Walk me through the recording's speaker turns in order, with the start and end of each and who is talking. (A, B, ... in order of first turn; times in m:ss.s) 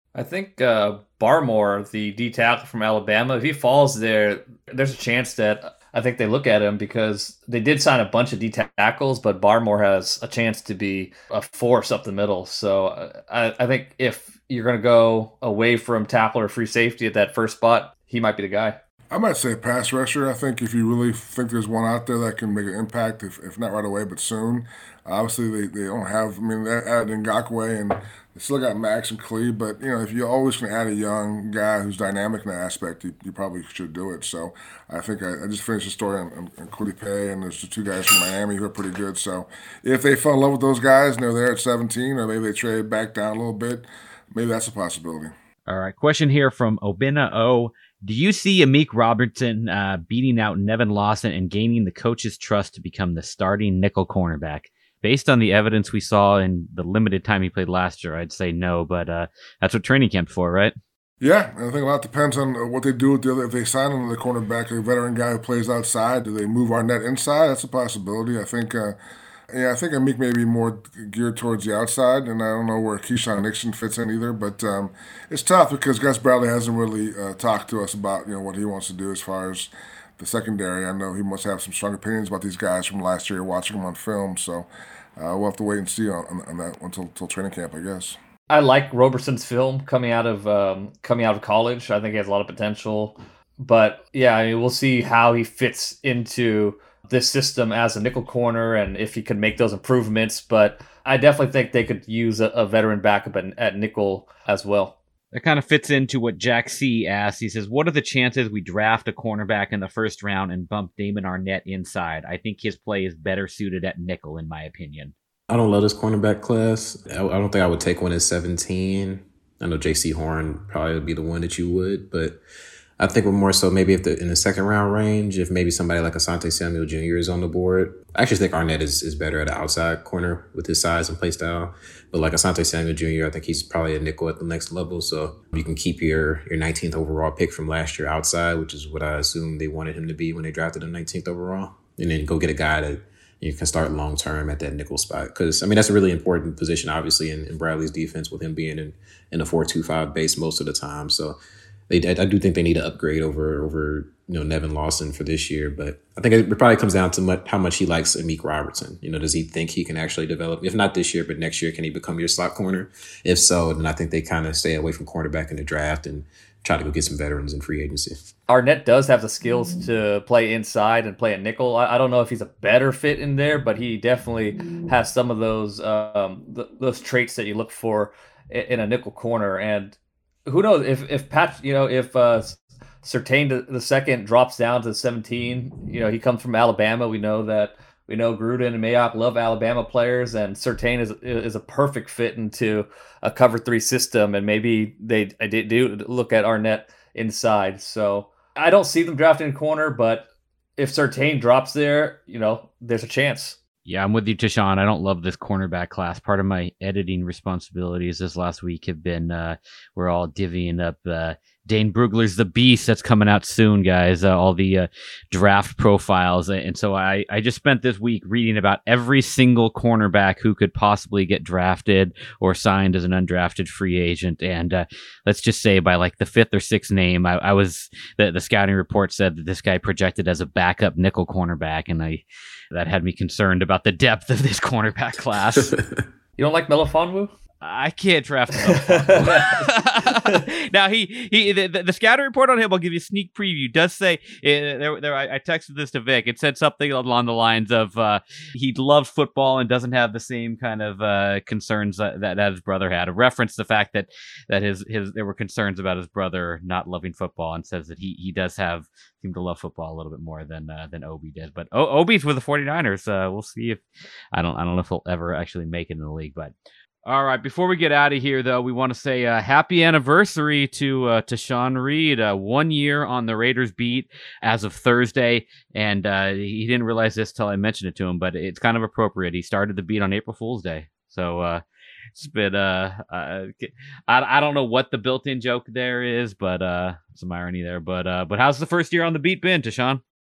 0:00.1-0:18.8 A
0:19.1-0:45.3 B
0:45.7-1:00.7 C
1:01.2-1:09.0 B
1:09.5-1:28.2 B
1:28.5-1:45.0 A
1:45.3-1:55.1 C
1:55.5-2:02.4 D
2:03.0-2:48.2 D
2:48.5-3:23.6 A
3:23.8-3:55.8 C
3:55.7-3:56.0 D
3:56.4-3:57.3 A
3:57.6-4:26.5 C
3:58.6-3:59.6 A
4:27.0-4:41.6 C
4:42.1-4:50.0 C